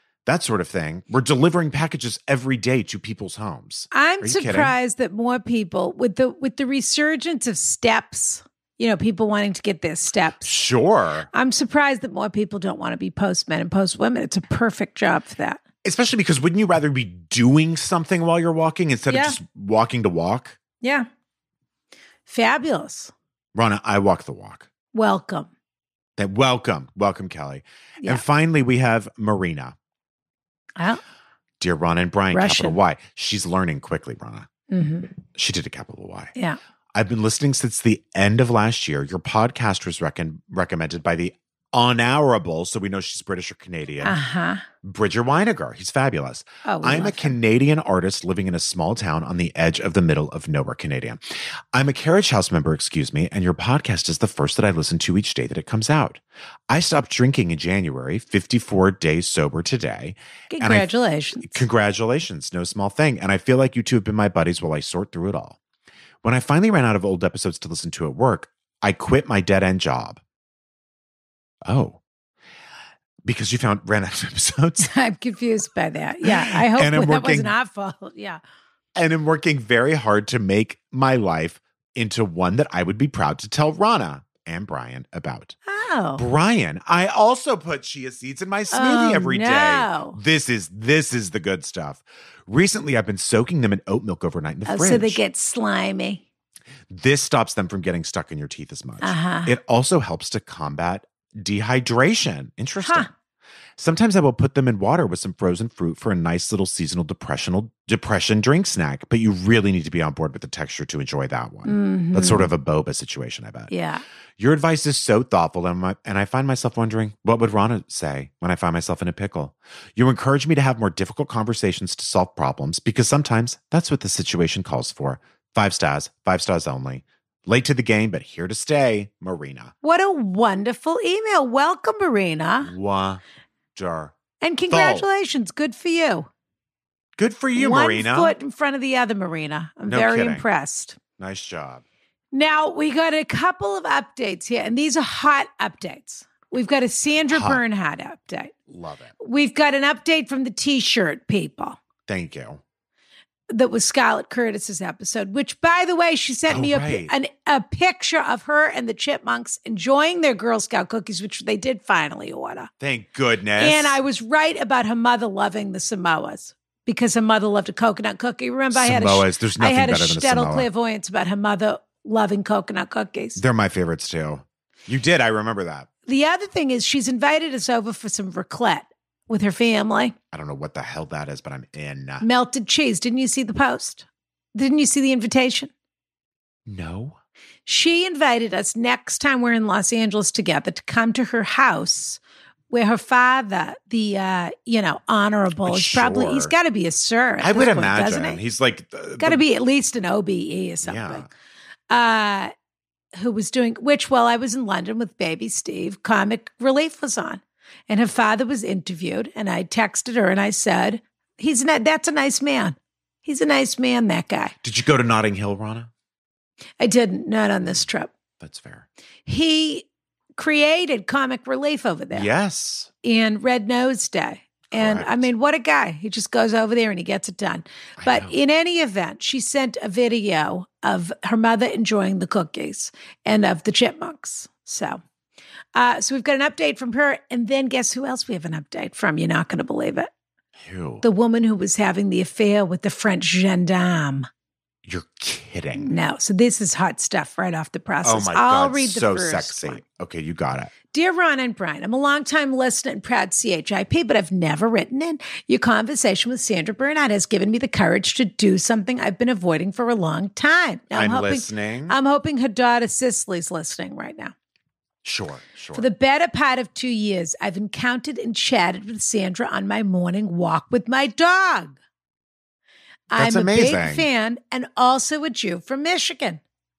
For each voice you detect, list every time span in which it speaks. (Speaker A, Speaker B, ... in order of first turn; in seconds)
Speaker A: 0.2-4.7, 10.4-11.3, 15.8-20.6, 23.5-24.7, 26.2-29.8, 31.6-34.5, 35.3-36.3, 36.9-44.2, 44.8-51.2, 51.7-60.9, 61.4-65.6, 66.2-70.2, 71.6-72.0, 73.2-74.9, 76.2-77.5, 79.0-85.5, 86.2-95.2, 96.9-103.1, 103.8-113.7, 114.4-129.7, 132.6-133.2, 133.8-134.2, 134.7-135.1, 137.2-138.3, 139.9-140.4, 141.2-141.8, 147.3-147.6, 148.7-149.1, 152.1-152.6, 156.5-157.1, 162.8-164.0, 168.7-170.7, 173.4-175.9, 180.3-182.2, 186.7-187.2, 195.6-196.5, 197.4-199.4, 200.8-201.3, 214.6-215.9, 218.4-218.8, 222.1-222.9, 224.7-225.3, 228.0-228.3, 240.6-241.0, 244.8-245.9, 248.0-250.7, 260.9-261.9, 265.0-265.9, 273.1-274.1
Speaker B: 3.9-10.5, 11.3-15.6, 19.1-19.4, 20.8-21.1, 22.2-23.1, 24.9-25.5, 32.3-32.8, 34.7-35.1, 44.0-44.6, 46.6-47.4, 60.5-61.6, 74.8-78.4, 85.7-86.2, 88.7-90.2, 94.7-96.2, 99.0-99.5, 102.8-103.1, 111.7-112.5, 113.7-114.0, 129.8-132.7, 134.4-136.3, 137.5-141.0, 142.3-148.5, 149.2-151.8, 153.5-162.7, 163.6-173.4, 176.1-180.1, 182.2-185.7, 187.7-198.4, 199.2-201.3, 201.9-202.5, 203.2-214.5, 216.8-218.1, 219.2-222.3, 223.0-235.0, 235.7-240.1, 241.0-244.3, 245.8-249.8, 250.9-264.3, 265.7-271.8, 273.1-276.4